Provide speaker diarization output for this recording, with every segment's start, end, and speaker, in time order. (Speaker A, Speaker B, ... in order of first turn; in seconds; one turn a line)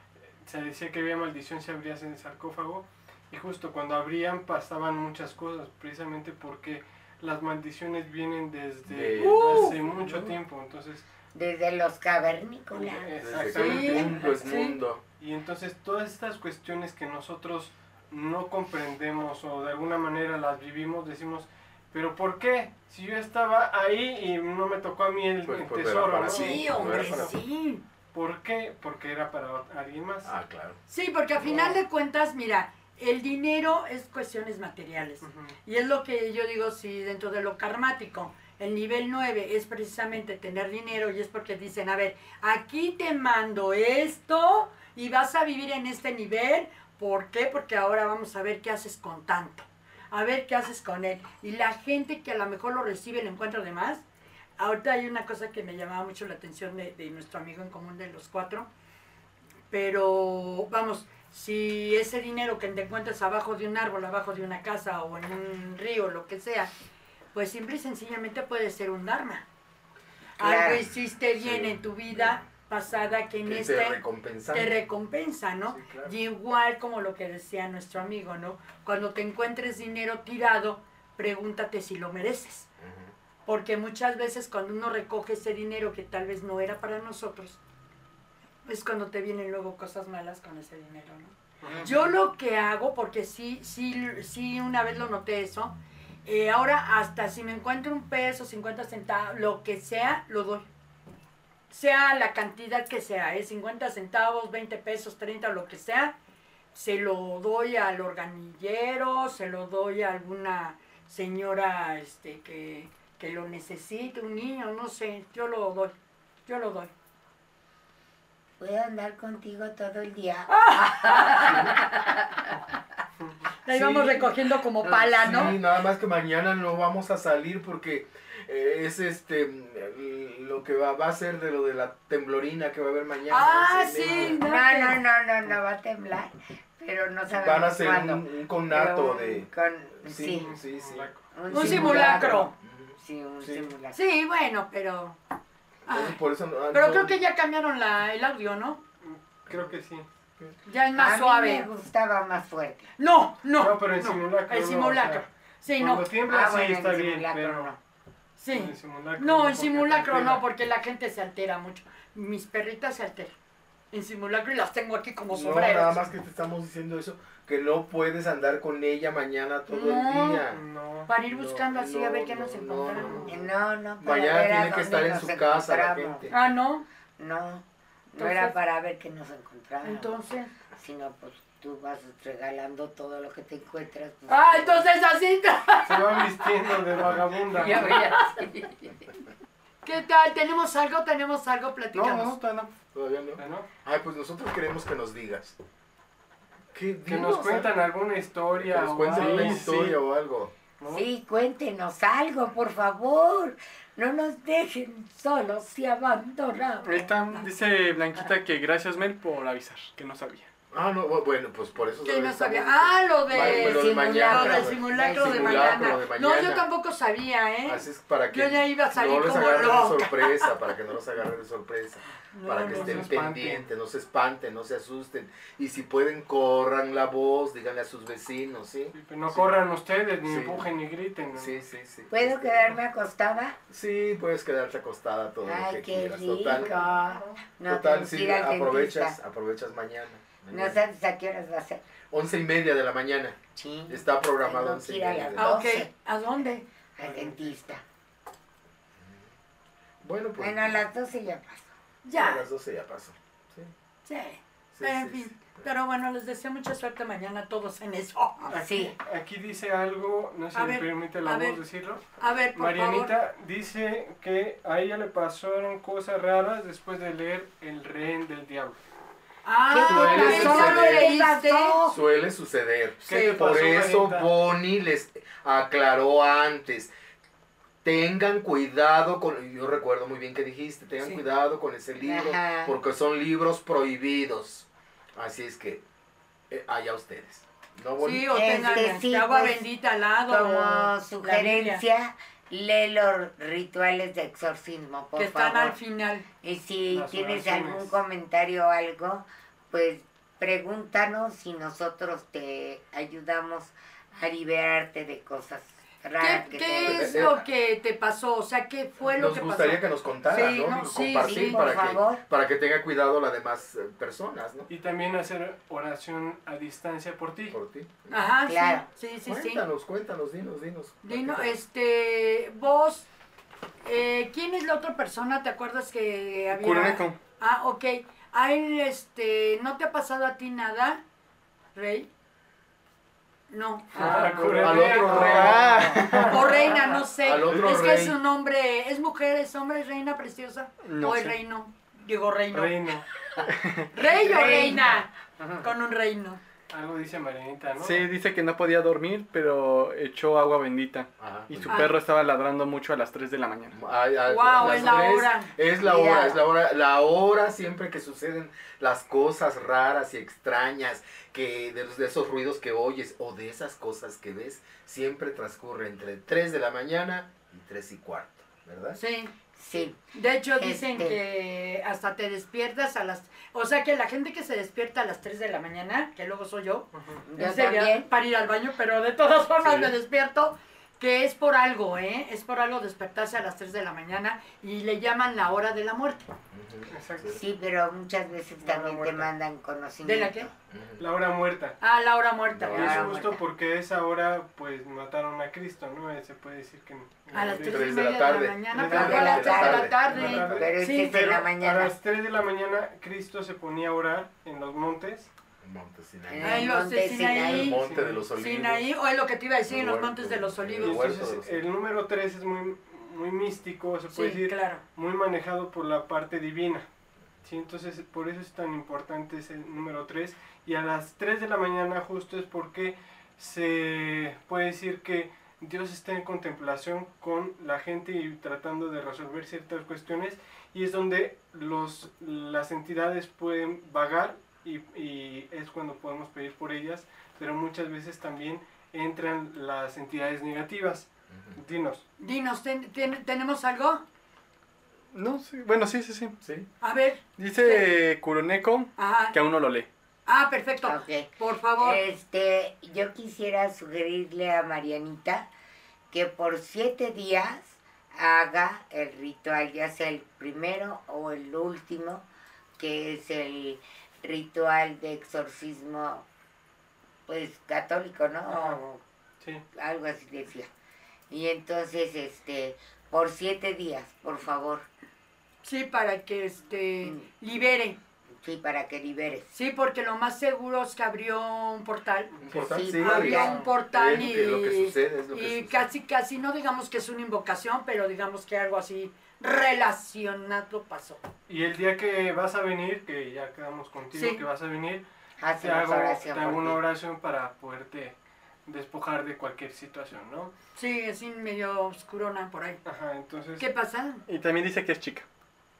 Speaker A: 0.4-11.0
Speaker B: 8.9-10.2
Speaker C: 9.2-9.8
Speaker D: 11.3-13.1
Speaker A: 12.7-14.4
Speaker B: 13.2-15.0
Speaker C: 13.5-14.8
Speaker A: 15.2-27.3
Speaker B: 25.4-27.3
Speaker C: 26.2-27.8
Speaker A: 28.1-30.3
Speaker B: 30.2-30.8
Speaker C: 30.9-54.0
Speaker B: 31.4-31.7
Speaker A: 35.2-35.5
Speaker C: 54.6-58.7
Speaker C: 59.7-66.7
Speaker C: 67.3-69.4
Speaker D: 70.4-70.8
Speaker C: 70.4-82.7
Speaker B: 71.3-72.5
Speaker B: 73.4-74.8
Speaker B: 75.7-76.1
Speaker B: 82.8-83.1
Speaker C: 83.5-87.6
Speaker C: 88.7-95.7
Speaker D: 91.6-92.1
Speaker C: 96.2-100.7
Speaker C: 101.7-106.2
Speaker C: 106.7-115.9
Speaker C: 116.5-116.9
Speaker D: 118.6-122.8
Speaker C: 120.5-121.7
Speaker C: 123.6-125.5
Speaker B: 123.7-124.3
Speaker D: 124.8-125.5
Speaker B: 125.2-134.4
Speaker C: 133.3-135.0
Speaker D: 134.0-140.5
Speaker B: 137.3-139.5
Speaker B: 140.0-143.7
Speaker A: 140.3-142.0
Speaker D: 141.3-144.0
Speaker C: 141.5-142.5
Speaker C: 143.9-145.2
Speaker C: 145.8-146.2
Speaker B: 145.9-147.2
Speaker C: 146.7-148.8
Speaker A: 149.0-150.1
Speaker C: 150.7-151.7
Speaker D: 150.9-152.9
Speaker C: 153.0-156.0
Speaker A: 153.6-155.2
Speaker A: 155.8-157.7
Speaker D: 156.2-157.8
Speaker C: 158.4-163.3
Speaker A: 158.5-160.4
Speaker C: 163.9-166.0
Speaker B: 165.3-170.6
Speaker C: 169.7-170.4
Speaker A: 170.5-171.1
Speaker C: 171.1-173.4
Speaker B: 171.3-173.4
Speaker A: 172.9-173.2
Speaker D: 173.3-176.3
Speaker B: 174.0-176.3
Speaker C: 176.3-176.9
Speaker D: 177.2-180.1
Speaker C: 178.1-178.5
Speaker C: 179.8-180.5
Speaker D: 180.7-184.8
Speaker C: 184.3-186.5
Speaker A: 185.8-188.0
Speaker D: 187.5-189.1
Speaker C: 189.8-192.4
Speaker B: 191.9-195.6
Speaker A: 193.4-193.7
Speaker B: 196.7-197.7
Speaker A: 197.1-200.0
Speaker B: 198.6-200.5
Speaker E: 199.1-199.8
Speaker D: 200.8-207.1
Speaker E: 206.8-210.5
Speaker B: 210.7-216.6
Speaker C: 212.0-220.4
Speaker D: 213.3-216.0
Speaker B: 217.7-229.5
Speaker C: 222.3-223.1
Speaker A: 222.6-223.7
Speaker A: 228.9-231.6
Speaker B: 230.2-230.7
Speaker B: 231.3-232.7
Speaker D: 232.1-233.6
Speaker B: 233.7-236.7
Speaker D: 235.4-239.2
Speaker B: 237.7-240.8
Speaker D: 240.5-241.8
Speaker B: 242.1-243.4
Speaker D: 243.5-245.9
Speaker B: 243.9-245.6
Speaker C: 245.4-246.6
Speaker D: 246.9-247.8
Speaker B: 249.0-249.2
Speaker B: 250.0-250.8
Speaker D: 250.4-251.7
Speaker C: 252.0-252.4
Speaker B: 252.1-253.7
Speaker C: 254.1-258.6
Speaker B: 254.7-255.4
Speaker A: 258.5-262.0
Speaker D: 258.5-258.9
Speaker C: 260.5-261.6
Speaker C: 262.2-263.1
Speaker A: 262.5-268.8
Speaker C: 269.4-271.8
Speaker D: 269.7-272.0
Speaker A: 269.8-270.6
Speaker B: 269.9-271.1
Speaker B: 271.8-276.9
Speaker A: 273.0-274.3
Speaker C: 273.1-273.6
Speaker B: 277.8-285.8
Speaker D: 282.0-282.7
Speaker B: 286.5-288.3
Speaker C: 288.0-291.8
Speaker D: 288.3-289.6
Speaker D: 290.3-295.8
Speaker C: 295.1-296.2
Speaker D: 296.4-307.3
Speaker A: 296.9-297.9
Speaker C: 306.2-311.7
Speaker B: 306.8-307.4
Speaker B: 309.0-314.7
Speaker D: 311.1-312.2
Speaker A: 314.7-317.6
Speaker B: 317.5-318.2
Speaker C: 318.1-319.6
Speaker D: 318.5-318.9
Speaker B: 319.2-321.6
Speaker C: 321.0-323.1
Speaker C: 323.8-331.0
Speaker E: 326.5-327.2
Speaker C: 331.7-332.1
Speaker C: 333.5-342.9
Speaker A: 333.9-337.0
Speaker B: 334.3-336.4
Speaker E: 335.4-336.4
Speaker B: 337.2-338.2
Speaker E: 340.8-341.4
Speaker A: 342.5-343.1
Speaker E: 343.5-343.9
Speaker C: 343.9-345.1
Speaker D: 343.9-345.7
Speaker C: 345.6-346.4
Speaker A: 346.7-348.0
Speaker E: 347.8-353.8
Speaker B: 351.2-351.8
Speaker C: 351.6-351.9
Speaker B: 353.7-369.0
Speaker C: 354.3-355.5
Speaker D: 354.6-355.0
Speaker D: 355.8-356.4
Speaker C: 368.9-369.3
Speaker D: 369.6-370.0
Speaker C: 370.1-386.3
Speaker D: 370.6-371.2
Speaker A: 376.9-377.2
Speaker D: 377.2-378.1
Speaker B: 379.6-379.9
Speaker B: 386.5-387.4
Speaker A: 386.9-387.4
Speaker D: 387.3-390.5
Speaker A: 388.6-389.3
Speaker C: 390.0-390.5
Speaker B: 390.7-391.0
Speaker A: 391.0-391.8
Speaker C: 391.8-393.1
Speaker B: 392.6-393.1
Speaker D: 392.7-393.4
Speaker A: 392.7-398.1
Speaker B: 397.3-400.4
Speaker C: 397.3-401.3
Speaker A: 398.7-405.3
Speaker D: 398.8-401.9
Speaker B: 405.6-408.8
Speaker D: 406.2-407.8
Speaker C: 406.4-407.8
Speaker A: 407.8-408.2
Speaker C: 408.4-411.1
Speaker B: 409.7-411.5
Speaker A: 410.8-416.9
Speaker C: 414.1-414.8
Speaker A: 417.4-442.0
Speaker C: 442.2-444.0
Speaker E: 445.1-446.4
Speaker B: 446.4-446.7
Speaker C: 446.8-447.8
Speaker E: 447.4-449.9
Speaker C: 449.0-449.4
Speaker C: 450.2-452.0
Speaker D: 450.8-455.5
Speaker D: 456.1-462.2
Speaker D: 462.8-466.2
Speaker D: 467.3-469.0
Speaker A: 468.5-468.8
Speaker D: 469.7-470.7
Speaker D: 471.3-474.9
Speaker C: 475.6-478.0
Speaker D: 477.0-477.3
Speaker D: 478.4-479.5
Speaker C: 479.5-482.3
Speaker B: 482.4-485.9
Speaker D: 482.5-483.6
Speaker C: 482.9-491.2
Speaker A: 491.5-495.0
Speaker C: 494.1-494.4
Speaker D: 495.4-496.8
Speaker A: 495.6-500.5
Speaker C: 500.8-502.8
Speaker A: 502.8-503.6
Speaker C: 503.6-504.2
Speaker E: 504.3-505.2